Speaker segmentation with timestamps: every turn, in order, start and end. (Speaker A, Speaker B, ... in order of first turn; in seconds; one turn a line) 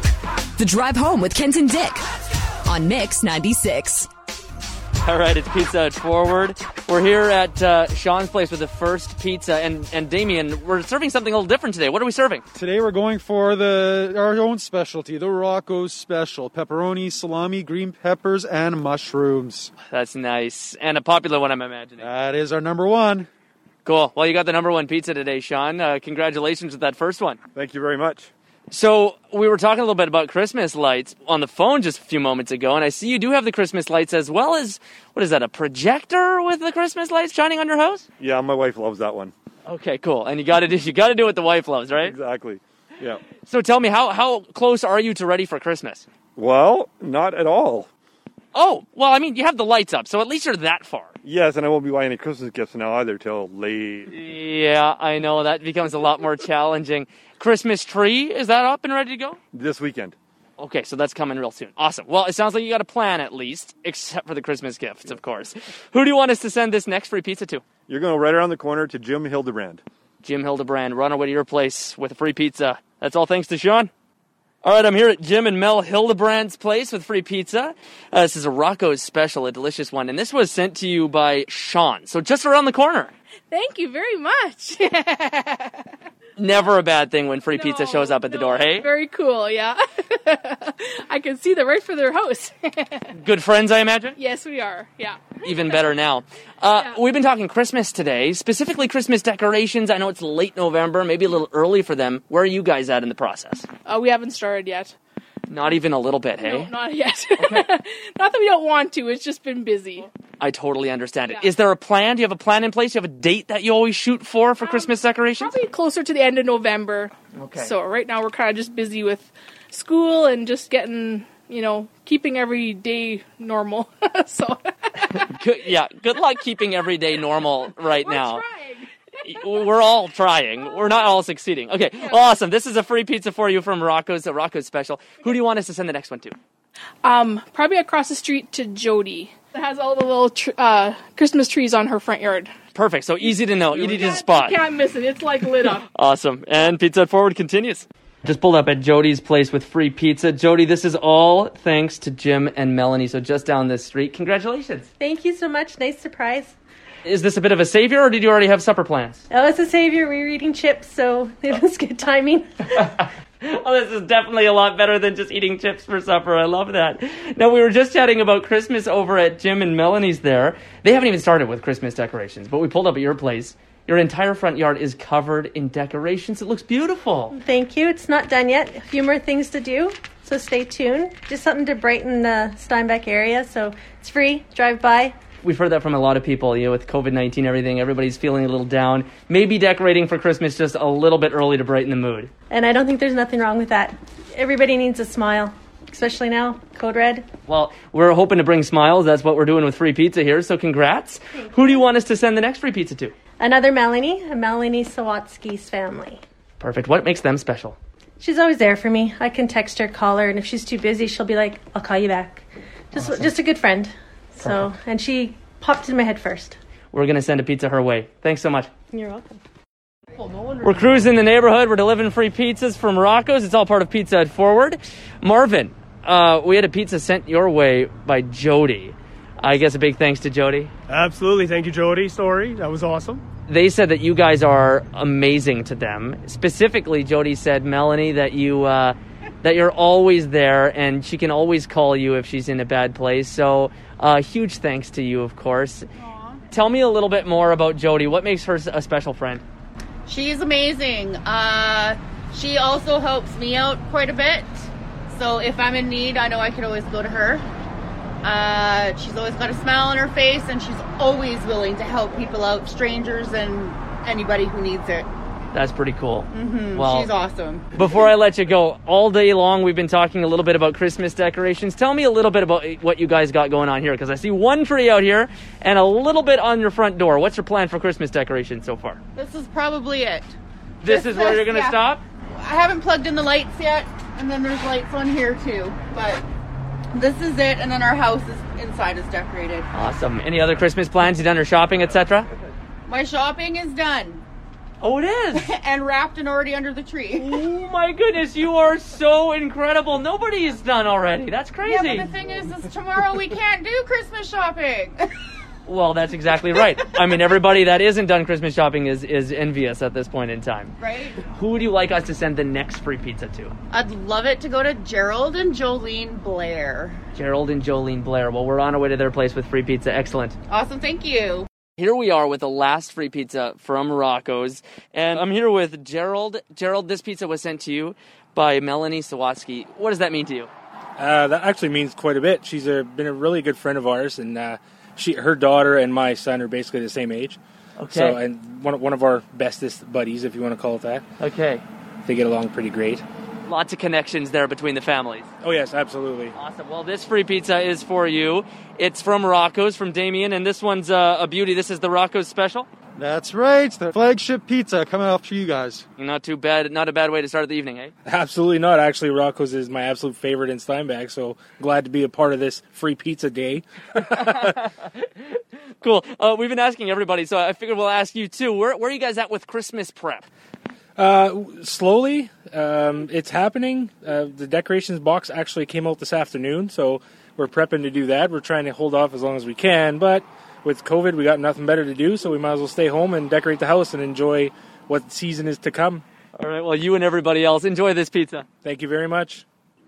Speaker A: 0.6-2.0
Speaker A: 2.6-4.1
Speaker B: 5.0-12.4
Speaker C: 12.5-19.7
Speaker B: 19.9-22.1
Speaker C: 22.0-23.3
Speaker B: 23.8-27.4
Speaker D: 27.5-28.3
Speaker B: 28.7-38.1
Speaker D: 38.2-39.3
Speaker B: 39.6-42.1
Speaker D: 42.0-43.2
Speaker B: 43.3-46.0
Speaker D: 46.4-47.9
Speaker B: 48.5-51.1
Speaker D: 51.2-54.1
Speaker B: 54.1-59.4
Speaker D: 59.5-60.1
Speaker B: 60.6-67.6
Speaker D: 67.9-69.8
Speaker B: 70.2-73.9
Speaker B: 74.6-83.1
Speaker E: 83.5-85.9
Speaker B: 86.4-88.8
Speaker E: 87.5-93.1
Speaker B: 93.1-94.2
Speaker E: 94.2-95.7
Speaker B: 95.4-103.7
Speaker E: 103.8-104.9
Speaker B: 105.5-106.7
Speaker E: 106.4-110.1
Speaker B: 107.4-107.6
Speaker B: 110.4-115.6
Speaker E: 114.6-125.2
Speaker B: 117.3-117.7
Speaker B: 125.2-128.4
Speaker E: 127.8-128.9
Speaker B: 129.2-136.3
Speaker E: 137.0-142.5
Speaker B: 142.7-144.6
Speaker E: 143.2-145.8
Speaker B: 145.9-154.9
Speaker F: 155.0-156.5
Speaker B: 157.0-159.2
Speaker F: 159.3-162.5
Speaker B: 162.7-177.3
Speaker F: 177.3-185.2
Speaker B: 185.4-192.3
Speaker F: 192.5-197.3
Speaker B: 197.5-203.1
Speaker F: 203.4-206.2
Speaker B: 206.6-207.8
Speaker F: 208.2-216.6
Speaker B: 216.9-218.7
Speaker F: 218.9-219.4
Speaker B: 220.6-230.7
Speaker G: 230.9-233.2
Speaker B: 233.5-245.9
Speaker H: 246.0-246.4
Speaker B: 246.5-249.4
Speaker H: 250.1-257.4
Speaker H: 258.2-265.1
Speaker B: 265.5-267.1
Speaker H: 266.3-268.0
Speaker B: 267.7-279.0
Speaker H: 279.1-280.3
Speaker B: 280.8-282.0
Speaker H: 280.8-281.8
Speaker H: 282.4-286.2
Speaker H: 286.9-289.7
Speaker B: 289.7-292.3
Speaker H: 292.9-294.2
Speaker B: 294.8-295.4
Speaker H: 295.3-297.4
Speaker B: 297.2-302.1
Speaker H: 301.6-305.1
Speaker B: 305.6-310.7
Speaker H: 310.8-311.2
Speaker B: 311.2-313.5
Speaker H: 313.7-317.0
Speaker B: 317.1-320.4
Speaker H: 320.5-321.5
Speaker B: 321.8-330.5
Speaker I: 331.0-341.0
Speaker B: 337.8-338.2
Speaker B: 341.2-341.6
Speaker I: 342.0-343.0
Speaker B: 343.4-345.3
Speaker I: 345.4-346.3
Speaker B: 346.3-352.7
Speaker C: 352.9-355.8
Speaker B: 356.0-357.9
Speaker I: 358.1-364.5
Speaker B: 364.2-370.3
Speaker I: 371.0-386.0
Speaker B: 386.4-388.5
Speaker I: 388.6-389.4